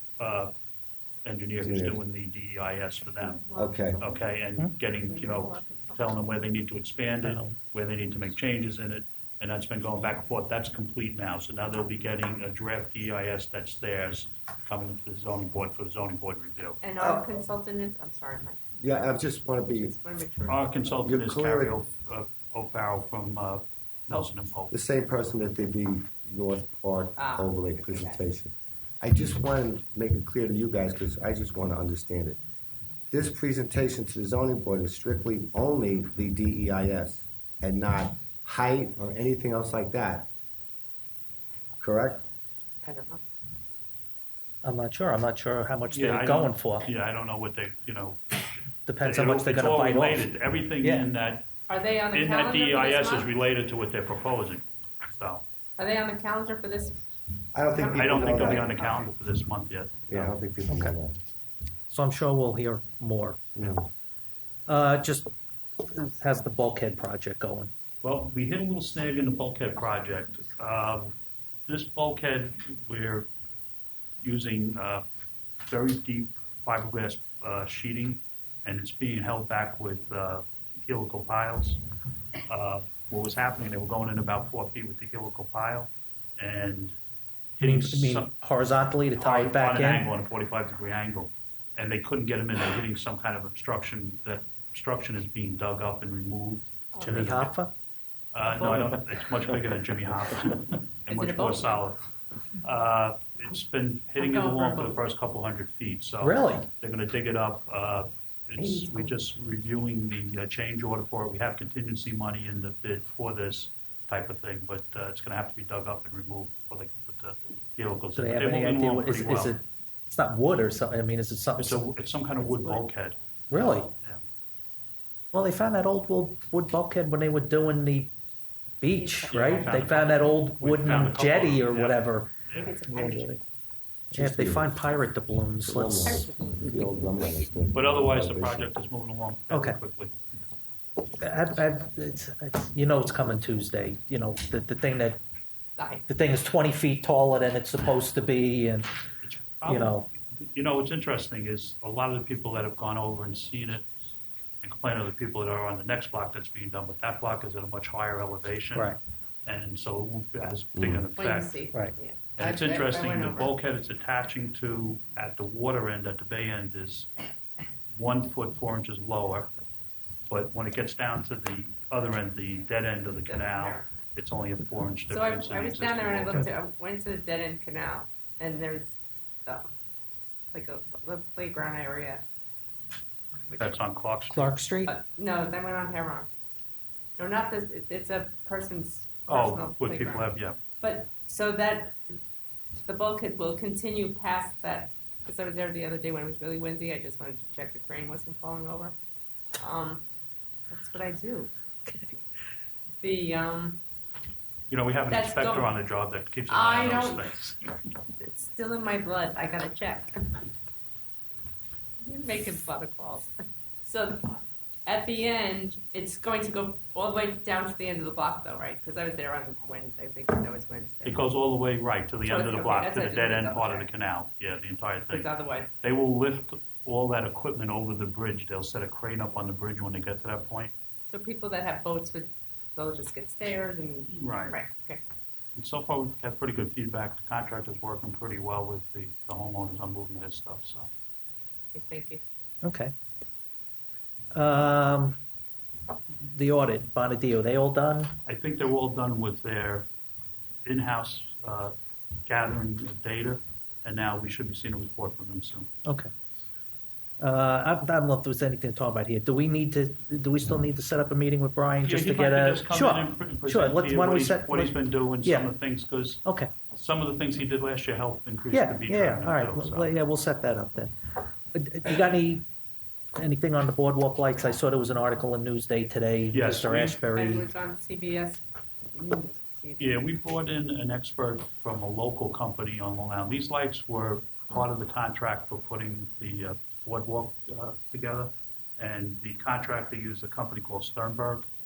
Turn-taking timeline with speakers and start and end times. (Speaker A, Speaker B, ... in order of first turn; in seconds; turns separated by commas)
Speaker A: 0.2-0.5, Speaker A: 1.2-3.4, Speaker B: 1.6-2.0, Speaker C: 3.2-4.3, Speaker B: 3.5-4.0, Speaker A: 4.0-16.8, Speaker C: 5.0-6.1, Speaker D: 7.2-7.6, Speaker C: 16.8-18.6, Speaker B: 18.8-19.9, Speaker C: 19.5-20.9, Speaker A: 20.5-24.7, Speaker B: 21.0-21.8, Speaker B: 24.7-32.4, Speaker C: 27.2-28.2, Speaker B: 33.1-40.3, Speaker B: 41.8-42.2, Speaker C: 42.8-43.2, Speaker D: 44.6-46.9, Speaker A: 45.9-48.4, Speaker D: 48.9-51.1, Speaker A: 49.0-51.5, Speaker C: 51.7-53.3, Speaker A: 52.1-55.4, Speaker C: 55.8-57.0, Speaker B: 57.5-58.7, Speaker C: 57.7-59.0, Speaker A: 57.9-60.3, Speaker B: 60.1-61.2, Speaker D: 60.7-60.9, Speaker D: 61.9-63.8, Speaker B: 63.5-63.9, Speaker D: 64.7-65.3, Speaker D: 65.8-67.7, Speaker A: 68.0-71.2, Speaker A: 71.7-73.3, Speaker A: 74.2-75.0, Speaker A: 75.7-81.8, Speaker A: 82.5-87.0, Speaker A: 87.6-88.3, Speaker D: 87.6-90.1, Speaker A: 89.2-97.4, Speaker C: 96.9-97.2, Speaker D: 97.0-97.7, Speaker A: 98.3-102.0, Speaker D: 98.6-99.0, Speaker C: 101.1-101.8, Speaker A: 102.6-119.5, Speaker C: 104.2-105.0, Speaker D: 106.2-106.7, Speaker C: 108.6-109.1, Speaker D: 118.1-121.9, Speaker A: 121.5-124.2, Speaker C: 122.4-122.8, Speaker D: 123.5-123.9, Speaker D: 125.3-128.1, Speaker D: 128.8-132.3, Speaker C: 128.9-129.9, Speaker A: 129.3-132.7, Speaker C: 132.5-133.4, Speaker B: 132.9-133.4, Speaker D: 134.1-136.3, Speaker B: 134.1-135.0, Speaker B: 135.6-138.7, Speaker C: 136.0-136.9, Speaker A: 137.7-140.1, Speaker D: 139.5-139.8, Speaker D: 141.2-145.2, Speaker C: 145.8-146.0, Speaker D: 146.1-148.9, Speaker A: 149.2-153.9, Speaker D: 149.7-150.1, Speaker A: 154.6-161.5, Speaker D: 158.7-159.0, Speaker B: 160.8-161.1, Speaker C: 161.2-163.5, Speaker A: 162.4-167.1, Speaker A: 167.9-169.5, Speaker A: 170.3-176.5, Speaker C: 173.2-173.9, Speaker C: 175.1-178.9, Speaker C: 180.5-182.2, Speaker C: 183.5-183.8, Speaker A: 183.6-184.4, Speaker D: 184.3-184.9, Speaker C: 184.8-186.3, Speaker C: 187.2-192.2, Speaker A: 189.3-190.6, Speaker C: 192.8-198.9, Speaker C: 199.6-200.0, Speaker C: 200.7-201.5, Speaker C: 203.0-203.8, Speaker A: 204.7-207.6, Speaker C: 205.1-205.8, Speaker C: 206.5-207.3, Speaker C: 208.2-210.4, Speaker C: 212.0-213.3, Speaker C: 213.8-221.2, Speaker A: 221.0-230.7, Speaker C: 222.2-223.9, Speaker C: 225.1-225.7, Speaker C: 231.1-235.0, Speaker A: 234.1-234.6, Speaker A: 235.6-240.9, Speaker C: 241.7-242.2, Speaker D: 242.6-242.9, Speaker D: 244.3-245.2, Speaker D: 246.2-248.1, Speaker A: 248.2-249.9, Speaker A: 250.6-251.7, Speaker A: 252.2-255.7, Speaker D: 255.8-256.1, Speaker D: 257.2-265.5, Speaker A: 261.8-269.9, Speaker D: 266.2-266.5, Speaker D: 268.5-272.4, Speaker D: 273.1-277.5, Speaker A: 276.3-277.0, Speaker C: 277.1-278.4, Speaker C: 278.9-280.0, Speaker A: 279.8-291.5